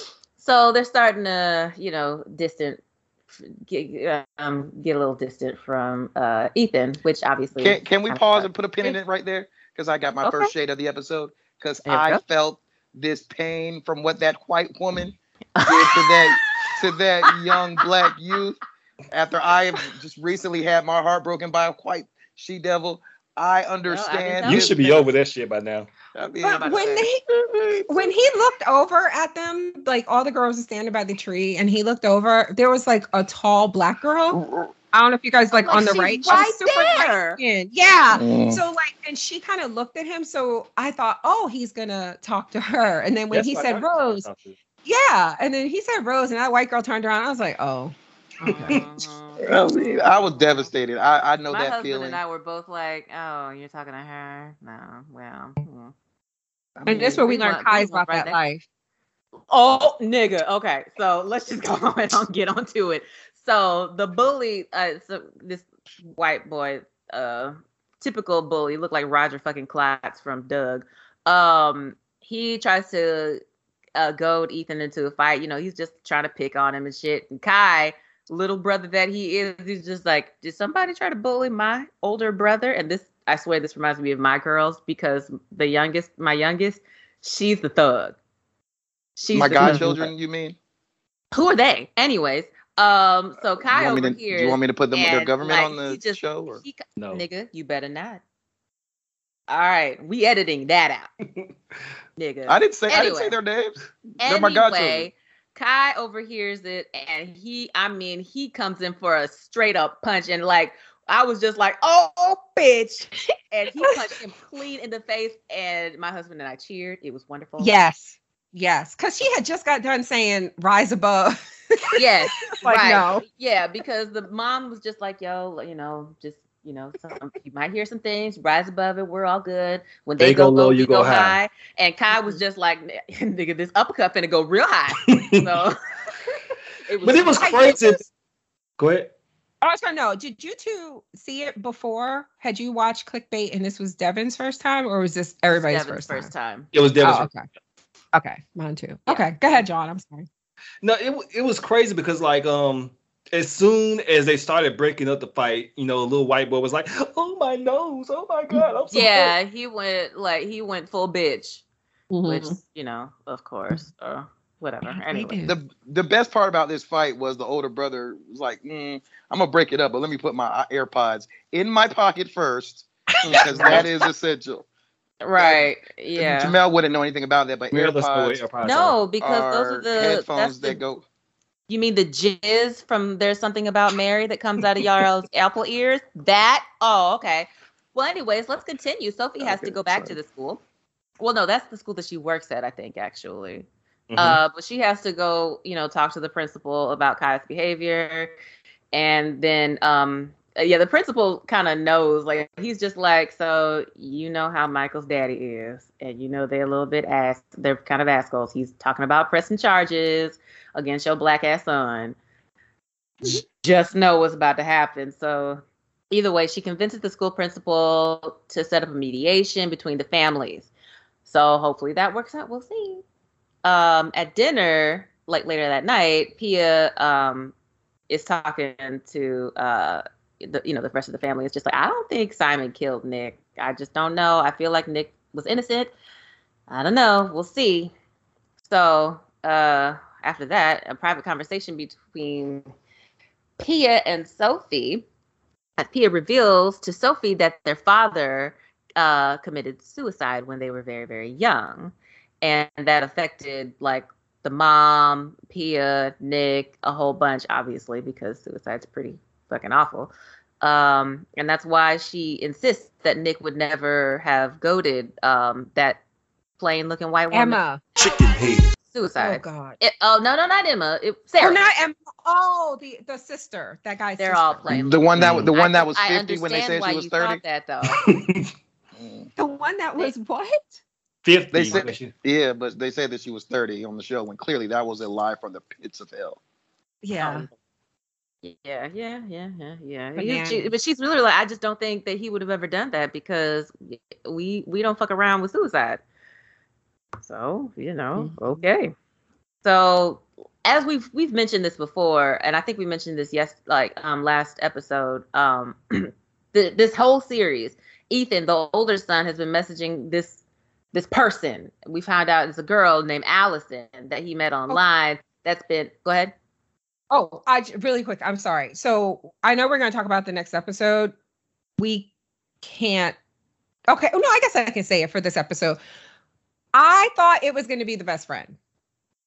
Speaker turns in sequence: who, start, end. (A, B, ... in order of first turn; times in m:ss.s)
0:00.4-0:02.8 A
0:03.4-0:09.0 A
0:07.6-0:18.6 B
0:10.2-0:10.5 A
0:11.9-0:12.2 A
0:15.6-0:16.4 A
0:19.1-0:25.1 B
0:23.8-0:24.8 A
0:24.4-0:25.9 C
0:26.1-0:28.1 B
0:26.4-0:27.2 D
0:27.9-0:34.4 D
0:34.3-0:34.7 B
0:34.9-0:44.2 D
0:35.5-0:37.4 A
0:38.1-0:38.6 B
0:43.3-0:44.6 C
0:44.8-0:48.8 D
0:48.4-0:50.7 A
0:49.4-0:52.2 B
0:51.5-0:55.9 A
0:56.8-0:57.2 B
0:56.9-0:58.6 D
0:56.9-0:58.4 A
0:59.5-1:13.4 A
1:14.0-1:28.2 A
1:29.2-1:30.0 A
1:29.3-1:30.6 B
1:29.6-1:30.0 C
1:31.3-1:38.2 A
1:33.7-1:36.6 B
1:37.0-1:37.2 C
1:39.5-1:41.1 A
1:42.2-1:43.4 A
1:42.5-1:45.1 B
1:44.2-1:57.7 A
1:57.6-2:03.3 D
2:02.0-2:15.8 A
2:10.2-2:11.4 C
2:15.0-2:15.4 C
2:16.9-2:17.9 A
2:17.0-2:18.0 C
2:17.4-2:18.0 D
2:18.8-2:19.1 C
2:19.6-2:26.3 D
2:25.5-2:26.7 A
2:26.7-2:27.3 C
2:27.0-2:27.4 D
2:28.1-2:30.3 D
2:30.8-2:39.3 C
2:38.9-2:41.6 A
2:42.1-2:42.6 D
2:42.2-2:45.5 A
2:44.9-2:45.6 D
2:45.5-2:54.7 B
2:53.2-2:53.9 D
2:53.5-2:53.8 A
2:55.2-2:56.6 A
2:55.4-2:58.4 B
2:57.7-2:59.0 C
2:58.6-3:00.8 A
2:59.2-3:01.0 B
3:01.7-3:10.6 A
3:09.4-3:10.2 B
3:11.2-3:18.3 A
3:14.1-3:14.4 C
3:18.9-3:32.2 A
3:33.2-3:40.7 A
3:41.2-3:43.0 A
3:43.6-3:47.5 A
3:48.1-3:55.9 A
3:56.7-3:57.9 A
3:58.6-4:02.6 A
4:03.6-4:05.0 A
4:05.8-4:26.0 A
4:26.6-4:27.6 A
4:27.3-4:27.8 D
4:28.0-4:28.6 C
4:28.8-4:31.6 A
4:29.2-4:29.8 D
4:31.4-4:34.8 D
4:34.2-4:38.0 A
4:34.7-4:37.4 B
4:35.2-4:35.5 C
4:38.0-4:38.5 C
4:39.0-4:39.3 B
4:39.4-4:40.8 D
4:41.2-4:42.1 C
4:41.5-4:46.4 B
4:47.0-4:47.5 D
4:47.2-4:47.5 A
4:48.4-4:56.0 A
4:50.2-4:50.7 D
4:57.2-4:58.9 A
4:58.2-4:58.6 D
4:59.6-5:10.4 A
5:10.9-5:16.3 A
5:17.1-5:21.1 D
5:21.8-5:22.1 D
5:22.6-5:23.2 D
5:23.9-5:25.8 D
5:26.7-5:28.6 D